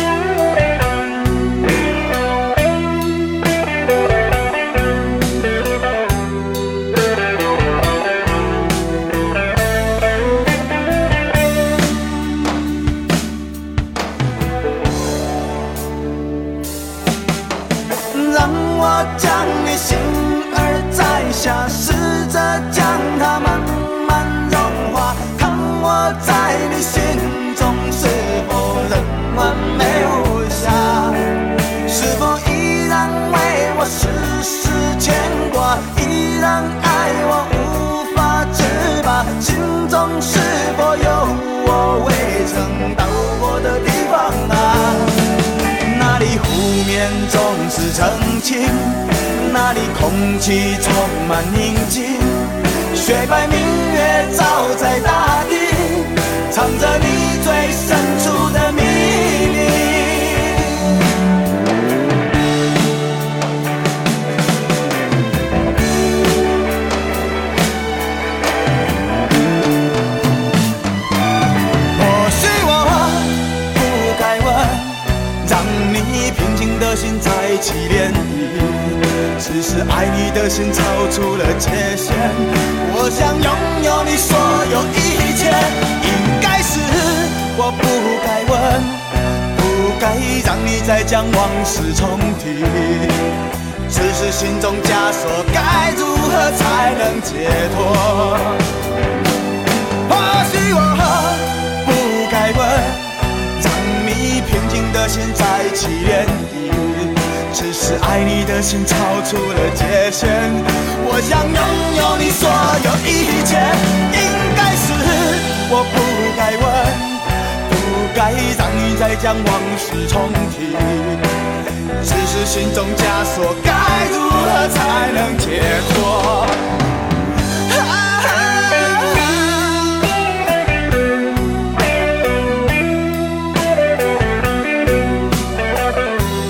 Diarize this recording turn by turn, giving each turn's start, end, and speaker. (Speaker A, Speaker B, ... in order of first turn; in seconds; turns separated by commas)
Speaker A: 18.1-61.1, Speaker A: 71.9-93.4, Speaker A: 93.9-98.7, Speaker A: 100.0-121.3, Speaker A: 122.0-126.7, Speaker A: 127.5-130.1